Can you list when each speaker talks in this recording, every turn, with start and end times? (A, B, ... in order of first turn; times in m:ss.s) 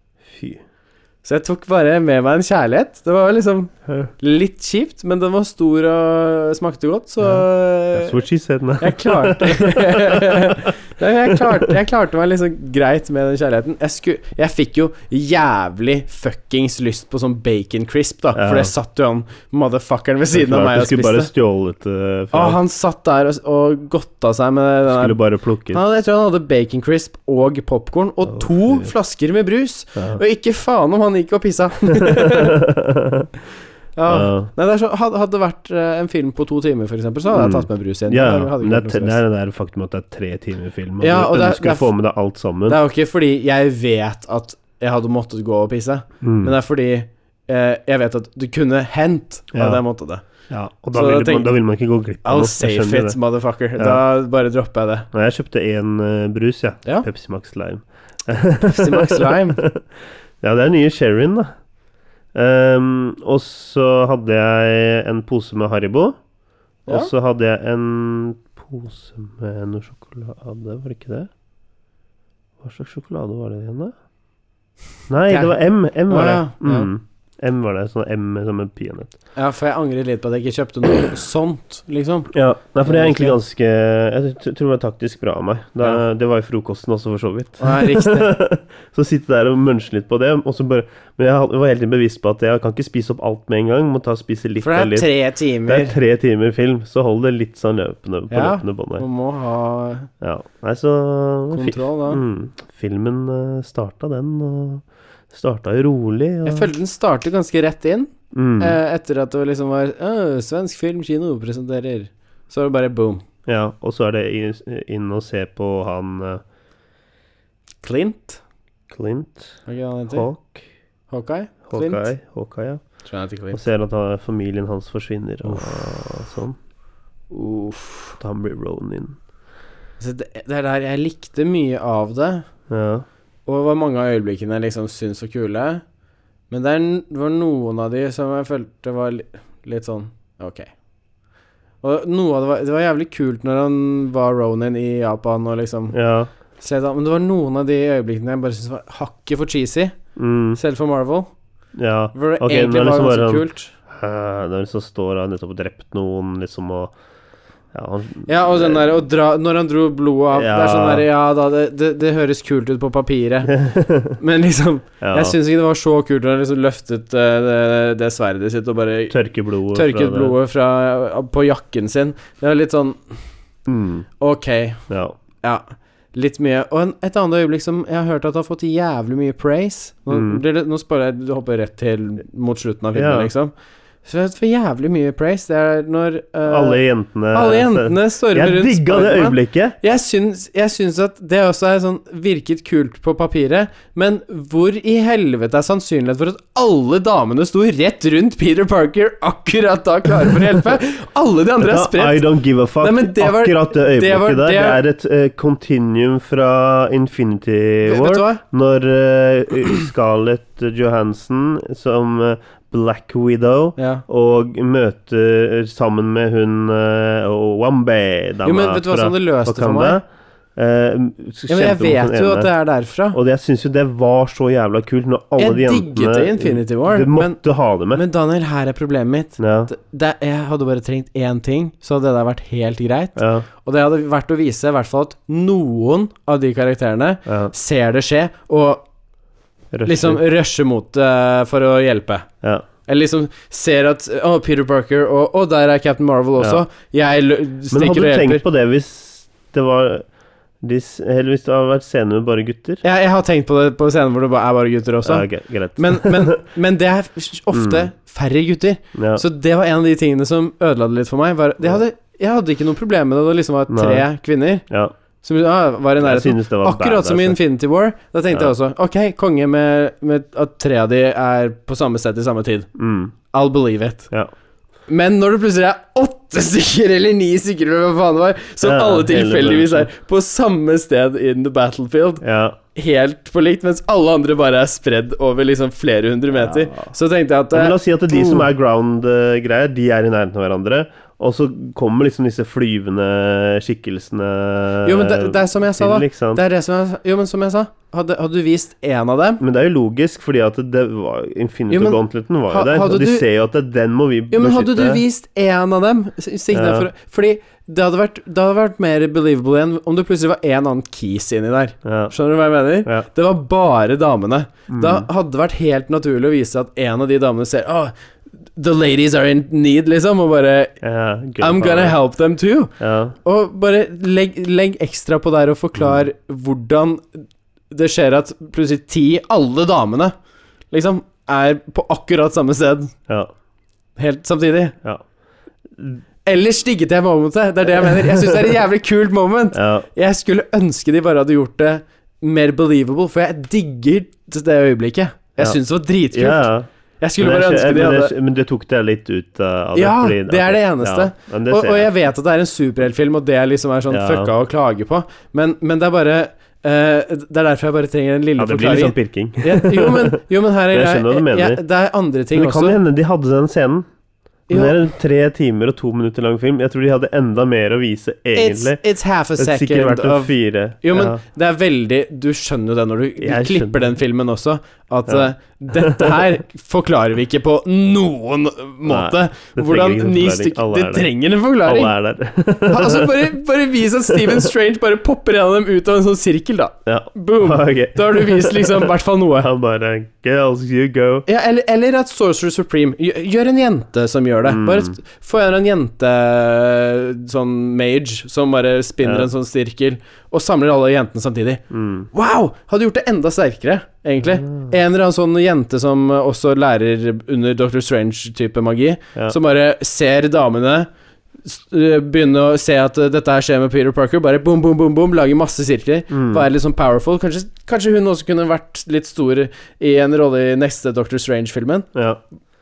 0:00.3-0:00.6 A
0:01.2-0:08.2 B
0:07.2-0:10.7 A
0:08.8-0:21.3 B
0:18.4-0:18.7 A
0:20.3-0:22.6 A
0:22.3-0:25.2 B
0:24.9-0:25.8 A
0:25.7-0:32.6 B
0:28.3-0:28.9 A
0:31.9-0:33.3 A
0:34.0-0:39.2 B
0:34.1-0:34.5 A
0:37.3-0:42.8 A
0:41.0-0:41.9 B
0:42.7-0:50.2 B
0:46.2-0:46.5 A
0:49.5-0:49.8 A
0:50.5-0:53.2 A
0:50.9-0:51.6 B
0:52.2-0:55.1 B
0:53.8-0:54.0 A
0:55.1-1:01.5 A
0:58.6-0:59.6 B
1:02.3-1:06.2 A
1:06.9-1:11.3 A
1:06.9-1:07.1 B
1:12.6-1:13.9 A
1:15.1-1:19.1 A
1:15.3-1:15.6 B
1:16.1-1:16.9 B
1:19.4-1:23.4 B
1:22.3-1:35.1 A
1:27.6-1:28.4 B
1:34.6-1:36.0 B
1:35.6-1:39.0 A
1:38.3-1:40.1 B
1:40.2-1:46.7 A
1:41.5-1:42.2 B
1:46.4-1:53.2 B
1:48.3-1:48.8 A
1:53.5-1:56.4 A
1:57.8-1:58.4 B
1:58.9-2:00.6 A
1:59.6-2:00.3 B
2:01.1-2:02.1 B
2:01.7-2:02.8 A
2:03.0-2:03.6 B
2:03.5-2:06.6 A
2:05.4-2:05.8 B
2:07.3-2:08.2 B
2:08.2-2:09.2 A
2:10.0-2:12.4 B
2:12.7-2:13.0 A
2:13.4-2:15.8 B
2:16.5-2:20.7 B
2:21.8-2:26.0 B
2:25.9-2:26.3 A
2:26.6-2:30.0 B
2:30.2-2:30.6 A
2:30.6-2:31.3 B
2:31.8-2:36.9 A
2:32.1-2:33.7 B
2:37.7-2:39.0 A
2:38.3-2:43.5 B
2:40.3-2:41.1 A
2:43.4-2:44.2 A
2:44.2-2:49.1 B
2:45.0-2:45.4 A
2:49.1-2:50.4 A
2:49.7-2:53.2 B
2:53.7-2:54.1 A
2:54.2-2:54.8 B
2:54.9-2:55.2 A
2:55.4-3:03.5 B
3:00.1-3:00.4 A
3:02.9-3:03.3 A
3:04.0-3:06.8 B
3:06.4-3:09.8 A
3:07.3-3:22.3 B
3:21.6-3:40.0 A
3:22.8-3:24.8 B
3:27.9-3:28.4 B
3:33.8-3:34.0 B
3:38.4-3:40.0 B
3:40.6-3:42.5 A
3:41.5-3:43.2 B
3:43.1-3:48.0 A
3:45.4-3:47.4 B
3:47.9-3:58.9 B
3:49.4-3:49.7 A
3:53.2-3:53.5 A
3:57.3-3:57.5 A
3:59.7-4:00.2 A
3:59.9-4:02.3 B
4:02.9-4:08.4 B
4:06.4-4:06.6 A
4:07.7-4:10.1 A
4:10.6-4:12.8 A
4:12.8-4:24.6 B
4:15.0-4:16.4 A
4:17.5-4:17.9 A
4:18.9-4:19.2 A
4:23.7-4:24.1 A
4:25.2-4:32.7 B
4:26.0-4:27.4 A
4:32.8-4:33.1 A
4:33.3-4:34.1 B
4:34.9-4:42.2 B
4:38.6-4:39.9 A
4:42.2-4:42.6 A
4:42.7-4:48.5 B
4:46.4-4:46.9 A
4:47.5-4:56.4 A
4:54.8-4:59.4 B
4:59.4-5:05.0 A
5:01.7-5:03.3 B
5:04.3-5:17.9 B
5:06.5-5:06.9 A
5:11.8-5:12.1 A
5:14.7-5:15.1 A
5:18.6-5:20.8 B
5:20.8-5:22.0 A
5:21.4-5:22.7 B
5:22.8-5:23.2 A
5:23.2-5:30.1 B
5:30.7-5:32.9 B
5:34.0-5:34.8 B
5:36.2-5:46.5 B
5:38.0-5:38.3 A
5:39.5-5:39.9 A
5:46.1-5:51.9 A
5:47.0-5:48.1 B
5:49.7-6:02.8 B
5:53.9-5:54.3 A
5:58.4-6:01.6 A
6:02.3-6:03.9 A
6:04.5-6:04.8 B
6:04.5-6:08.8 A
6:08.4-6:21.9 B
6:09.4-6:11.2 A
6:13.2-6:13.9 A
6:15.1-6:16.4 A
6:18.9-6:21.1 A
6:21.6-6:23.3 A
6:22.7-6:29.5 B
6:24.1-6:24.5 A
6:26.9-6:31.3 A
6:31.3-6:50.9 B
6:34.4-6:35.0 A
6:39.0-6:39.3 A
6:41.7-6:42.1 A
6:44.3-6:44.7 A
6:51.4-7:01.9 B
6:56.1-6:56.4 A
7:01.9-7:02.2 A